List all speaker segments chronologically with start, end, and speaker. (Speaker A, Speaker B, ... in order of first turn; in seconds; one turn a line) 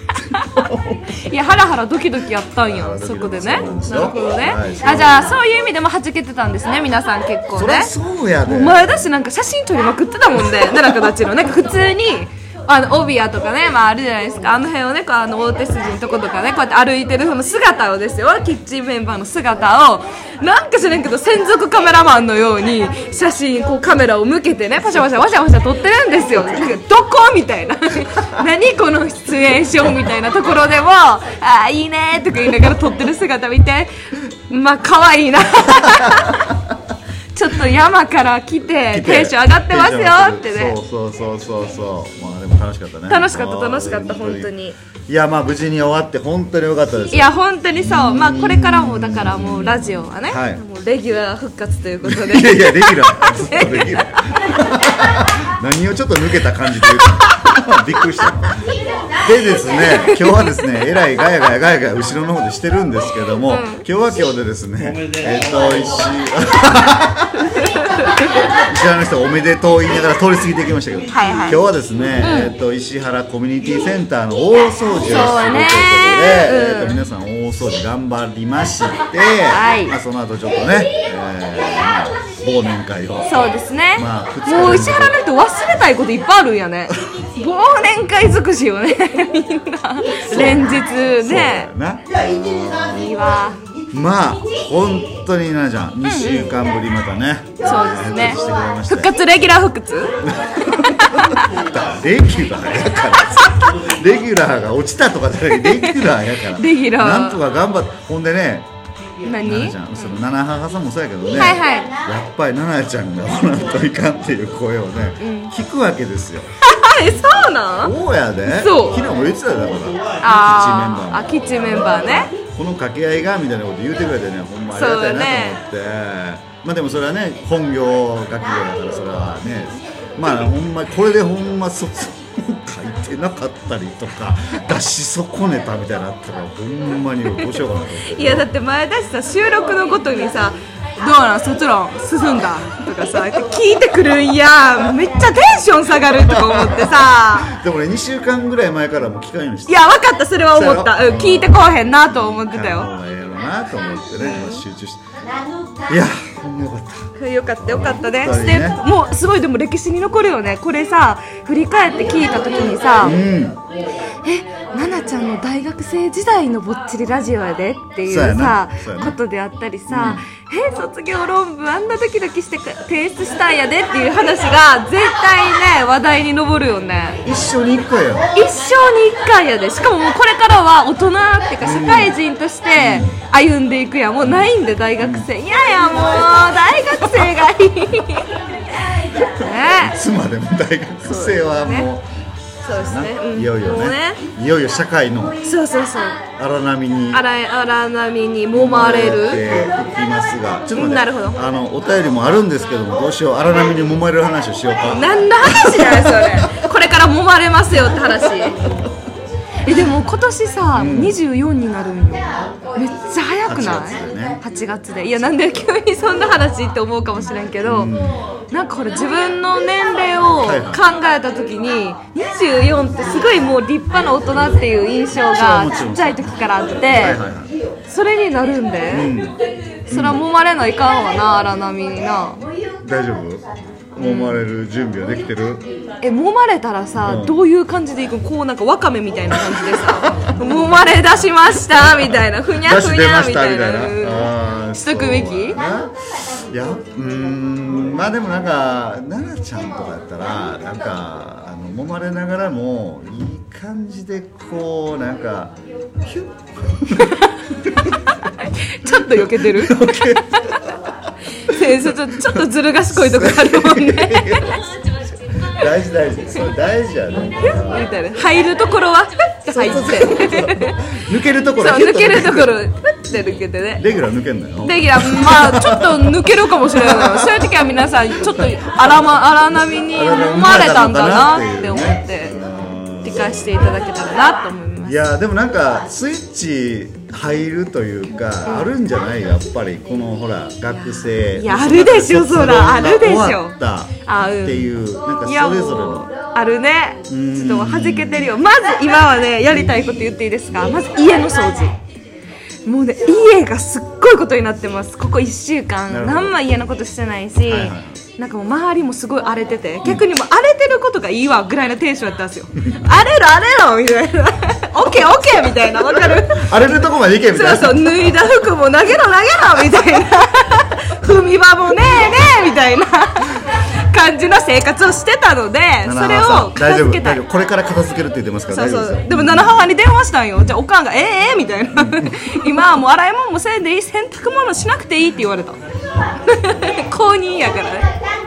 Speaker A: 0.3-1.1
Speaker B: 0.3-7.9
Speaker A: 2.7-5.4
Speaker A: 7.5-9.0
Speaker B: 8.5-33.9
Speaker A: 26.4-26.7
Speaker B: 34.5-36.5
Speaker B: 37.4-40.8
Speaker A: 38.9-44.5
Speaker B: 43.1-44.8
Speaker A: 45.1-50.6
Speaker B: 47.1-54.4
Speaker A: 52.0-58.6
Speaker B: 56.8-57.6
Speaker A: 59.2-67.5
Speaker B: 59.7-60.5
Speaker B: 63.5-63.9
Speaker B: 67.4-68.4
Speaker A: 68.5-85.2
Speaker B: 71.1-71.6
Speaker B: 72.2-72.5
Speaker B: 75.0-77.0
Speaker B: 79.5-80.0
Speaker B: 83.2-91.7
Speaker A: 90.3-93.2
Speaker B: 92.8-93.6
Speaker A: 93.9-99.1
Speaker B: 96.0-96.6
Speaker B: 97.6-101.4
Speaker A: 100.2-108.7
Speaker B: 105.6-106.0
Speaker B: 106.5-107.4
Speaker B: 109.2-110.2
Speaker A: 109.4-116.5
Speaker B: 111.3-111.9
Speaker B: 115.2-115.5
Speaker B: 116.6-118.0
Speaker A: 117.8-138.5
Speaker B: 118.5-119.0
Speaker B: 120.2-122.3
Speaker B: 124.7-125.6
Speaker B: 137.3-147.5
Speaker A: 146.2-149.8
Speaker B: 149.7-152.9
Speaker A: 150.5-155.0
Speaker B: 154.2-154.6
Speaker A: 155.9-157.1
Speaker B: 157.2-163.2
Speaker A: 157.6-158.8
Speaker A: 163.0-163.6
Speaker B: 164.2-177.2
Speaker A: 168.1-169.2
Speaker A: 169.9-170.2
Speaker A: 177.2-178.3
Speaker B: 178.3-188.4
Speaker A: 181.6-182.2
Speaker A: 182.8-183.2
Speaker A: 184.2-185.3
Speaker B: 189.3-190.0
Speaker A: 189.7-192.1
Speaker B: 191.0-191.9
Speaker B: 192.6-194.2
Speaker A: 192.7-195.4
Speaker B: 195.4-196.2
Speaker A: 196.4-197.2
Speaker B: 197.1-199.6
Speaker A: 198.5-206.5
Speaker B: 200.7-201.4
Speaker B: 204.9-208.6
Speaker B: 209.7-217.9
Speaker A: 210.8-211.2
Speaker A: 213.5-214.4
Speaker A: 217.6-218.2
Speaker B: 218.5-227.2
Speaker A: 220.4-220.8
Speaker A: 225.3-226.3
Speaker A: 226.9-227.5
Speaker B: 227.9-229.1
Speaker A: 228.9-229.4
Speaker B: 229.9-232.4
Speaker A: 229.9-230.2
Speaker A: 232.8-233.4
Speaker A: 234.0-235.7
Speaker B: 234.0-234.4
Speaker B: 236.0-245.6
Speaker A: 237.0-237.4
Speaker A: 239.5-240.7
Speaker A: 241.8-245.9
Speaker A: 246.5-257.9
Speaker B: 257.9-260.6
Speaker A: 258.9-260.7
Speaker B: 261.4-264.6
Speaker A: 261.5-267.9
Speaker B: 267.4-270.9
Speaker A: 269.5-272.6
Speaker B: 271.6-273.8
Speaker A: 273.1-277.6
Speaker B: 274.6-282.4
Speaker A: 278.4-279.0
Speaker A: 279.9-283.5
Speaker B: 283.0-285.0
Speaker A: 284.8-296.1
Speaker B: 288.4-288.7
Speaker B: 290.7-294.7
Speaker B: 295.2-301.8
Speaker A: 297.1-298.4
Speaker B: 302.6-316.7
Speaker A: 305.9-306.4
Speaker A: 307.5-308.0
Speaker A: 315.9-317.9
Speaker B: 317.3-327.2
Speaker A: 325.8-329.7
Speaker B: 328.5-335.6
Speaker A: 331.7-332.4
Speaker B: 336.2-337.9